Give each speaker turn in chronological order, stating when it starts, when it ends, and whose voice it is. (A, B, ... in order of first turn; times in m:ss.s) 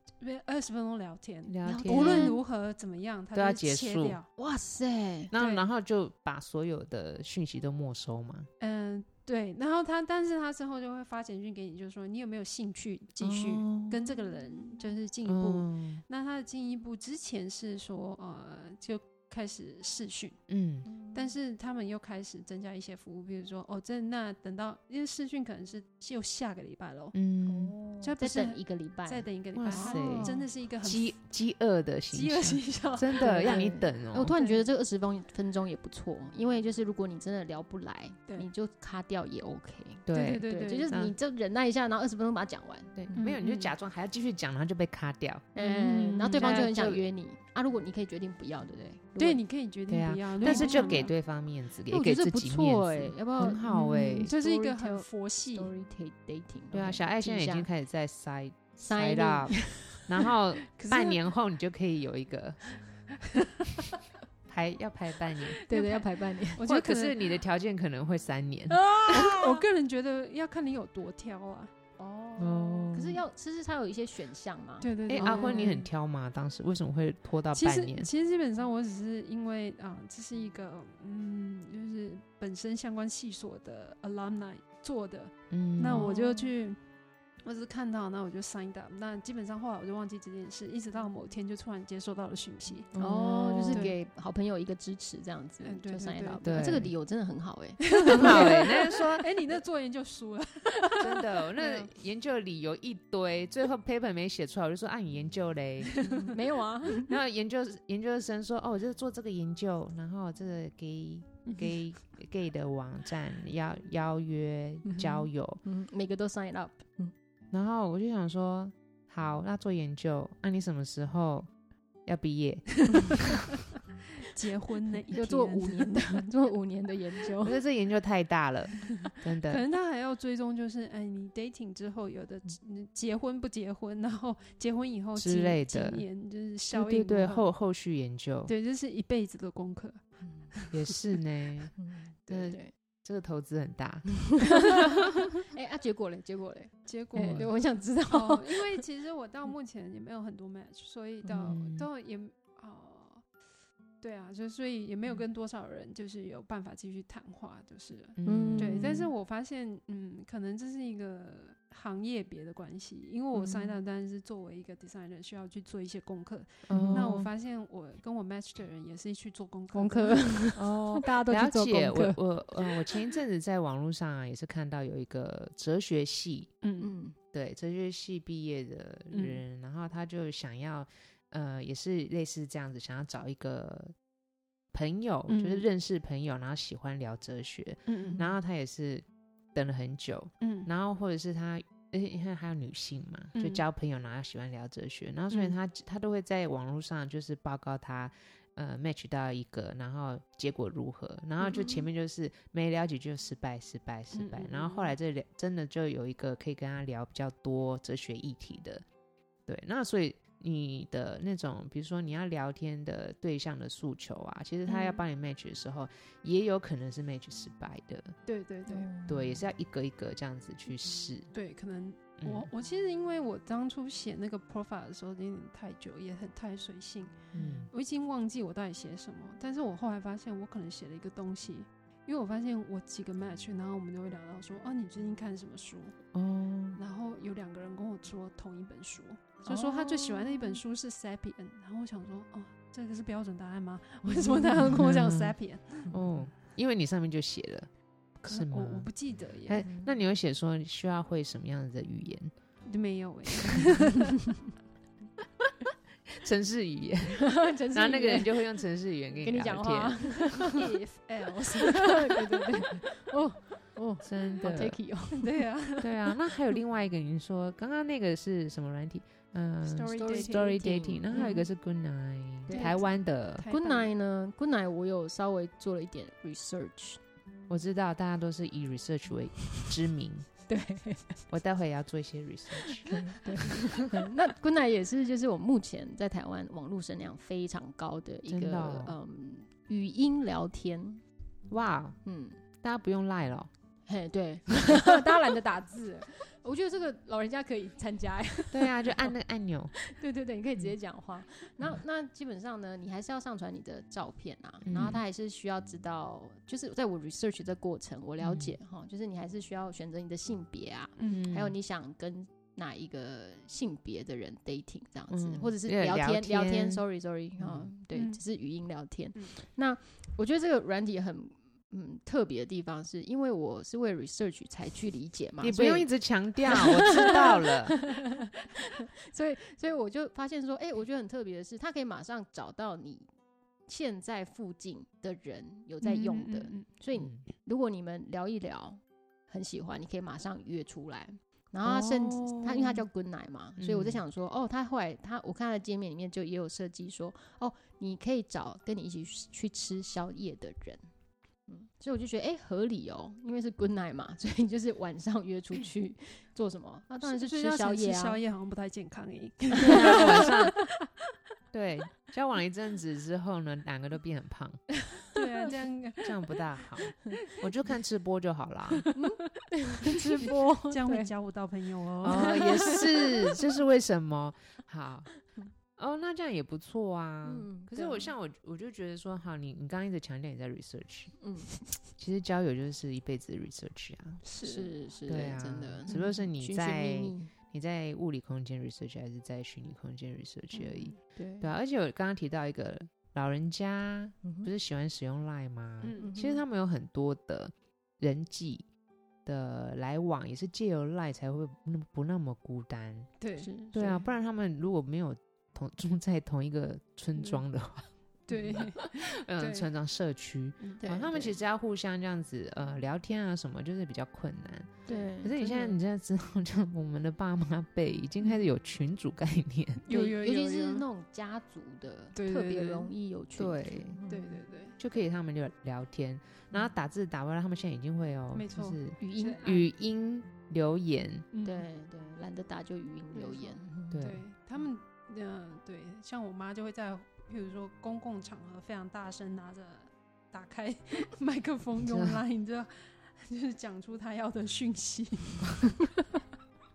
0:00.2-0:04.3 A
0:01.4-0:02.3 B
0:01.6-0:02.4 C
0:03.3-0:04.2 B
0:04.4-0:05.3 C
0:05.3-0:08.5 B
0:05.3-0:05.7 A
0:08.6-0:20.4 A
0:13.2-0:14.1 B
0:15.2-0:16.0 B
0:20.5-0:20.9 B
0:20.8-0:21.3 C
0:21.1-0:27.1 A
0:27.1-0:27.8 B
0:27.4-0:30.4 C
0:28.0-0:31.1 A
0:29.5-0:34.3 B
0:32.1-0:33.7 A
0:33.2-0:43.7 C
0:34.2-0:34.6 A
0:40.0-0:41.1 B
0:40.1-0:40.9 A
0:43.0-0:45.5 B
0:43.1-0:43.5 A
0:45.5-0:49.4 C
0:45.6-0:46.6 A
0:46.4-0:47.0 B
0:49.2-0:51.1 A
0:49.9-0:54.3 B
0:50.4-0:51.1 C
0:51.9-0:57.7 C
0:53.6-0:55.7 A
0:56.7-1:02.7 B
0:58.8-1:00.1 C
1:00.8-1:01.2 A
1:04.5-1:05.6 B
1:05.6-1:07.3 A
1:05.7-1:06.6 C
1:06.6-1:09.4 B
1:08.7-1:09.5 C
1:09.1-1:11.7 A
1:12.0-1:15.8 C
1:12.4-1:13.2 B
1:14.8-1:15.9 A
1:15.1-1:18.1 B
1:17.5-1:26.8 A
1:25.5-1:26.1 B
1:25.9-1:26.5 C
1:27.4-1:33.9 A
1:32.9-1:33.9 B
1:33.0-1:38.6 C
1:35.6-1:36.6 A
1:36.4-1:36.9 B
1:37.9-1:41.9 A
1:38.1-1:39.3 B
1:41.0-1:46.0 B
1:45.9-1:46.2 A
1:46.0-1:47.1 C
1:47.0-1:55.6 B
1:54.8-1:57.1 C
1:57.5-2:01.5 B
2:02.0-2:03.4 B
2:02.9-2:03.1 A
2:04.2-2:06.2 A
2:05.1-2:07.6 C
2:07.4-2:09.6 B
2:09.1-2:17.4 A
2:15.2-2:16.0 B
2:16.7-2:18.5 B
2:18.4-2:20.0 A
2:20.2-2:20.5 C
2:20.5-2:21.0 A
2:20.7-2:21.7 B
2:21.8-2:22.7 C
2:22.3-2:24.8 B
2:25.4-2:28.8 C
2:26.8-2:27.5 A
2:27.2-2:27.5 B
2:28.1-2:33.2 A
2:31.2-2:31.5 C
2:31.5-2:31.9 B
2:34.0-2:50.6 A
2:38.2-2:38.9 B
2:38.2-2:39.1 C
2:43.4-2:43.7 B
2:46.7-2:47.2 B
2:46.7-2:47.3 C
2:49.7-2:52.2 C
2:50.6-2:56.5 B
2:56.6-2:56.9 A
2:56.8-2:57.2 C
2:57.3-3:03.9 B
2:59.1-2:59.4 A
3:04.7-3:28.8 B
3:05.3-3:05.6 A
3:07.9-3:08.2 A
3:10.4-3:10.7 A
3:13.3-3:13.6 A
3:15.3-3:15.6 A
3:21.4-3:21.8 A
3:24.1-3:24.9 A
3:29.5-3:38.1 B
3:34.7-3:35.0 A
3:38.2-3:38.9 A
3:38.7-3:39.4 C
3:39.1-3:41.3 B
3:41.3-3:56.0 A
3:42.2-3:42.5 B
3:47.3-3:47.7 B
3:47.4-3:47.6 C
3:56.1-3:56.8 B
3:56.7-4:05.9 A
4:04.0-4:05.4 B
4:05.9-4:08.9 B
4:08.3-4:09.6 A
4:09.4-4:12.3 B
4:09.6-4:10.0 C
4:12.7-4:14.3 A
4:16.1-4:20.4 B
4:17.2-4:18.3 C
4:19.2-4:20.6 C
4:20.5-4:22.4 A
4:21.6-4:25.4 C
4:24.0-4:24.8 B
4:25.1-4:26.1 A
4:25.8-4:33.4 B
4:29.6-4:31.5 A
4:29.9-4:31.4 C
4:32.5-4:32.7 C
4:32.5-4:33.9 A
4:33.5-4:37.0 C
4:37.5-4:40.4 B
4:40.5-4:41.2 C
4:41.3-4:43.5 B
4:42.9-4:51.0 C
4:48.3-4:48.9 B
4:51.5-4:52.0 B
4:52.0-4:52.4 C
4:52.6-4:53.5 B
4:53.9-4:59.1 C
4:58.5-4:59.7 B
4:59.8-5:25.9 C
5:04.6-5:05.0 B
5:08.2-5:08.6 B
5:11.0-5:11.2 A
5:11.1-5:11.5 B
5:15.1-5:16.8 B
5:17.4-5:17.7 B
5:17.9-5:18.2 A
5:25.4-5:27.8 B
5:26.4-5:33.1 C
5:33.7-5:50.8 C
5:35.8-5:36.7 A
5:36.9-5:37.2 B
5:41.6-5:42.8 B
5:43.6-5:44.0 B
5:51.5-5:58.2 C
5:57.0-6:00.6 A
5:59.6-6:00.6 B
5:59.6-6:00.3 C
6:01.5-6:04.7 B
6:05.1-6:06.6 A
6:06.0-6:08.9 B
6:08.9-6:11.1 C
6:09.8-6:12.9 A
6:12.0-6:15.1 B
6:12.0-6:13.1 C
6:15.8-6:21.2 B
6:17.2-6:18.0 C
6:21.2-6:21.5 C
6:22.0-6:24.2 B
6:24.2-6:24.7 A
6:24.4-6:27.3 C
6:25.1-6:38.7 B
6:30.5-6:31.0 A
6:31.1-6:31.5 C
6:34.2-6:34.5 C
6:35.8-6:36.2 A
6:36.0-6:36.4 C
6:39.2-6:43.1 B
6:43.2-6:43.5 A
6:43.4-6:44.1 C
6:43.7-6:59.8 B
6:47.2-6:47.4 A
6:48.3-6:49.7 A
6:50.8-6:51.4 C
6:54.9-6:55.1 A
6:54.9-6:55.7 C
6:59.8-7:00.9 A
6:59.9-7:04.4 C
7:02.1-7:02.9 A
7:03.4-7:04.0 B
7:04.1-7:04.8 A
7:04.8-7:11.2 B
7:08.3-7:09.6 A
7:09.0-7:09.6 C
7:11.3-7:11.7 A
7:11.4-7:14.0 C
7:13.1-7:26.0 A
7:13.9-7:14.2 B
7:21.8-7:22.2 B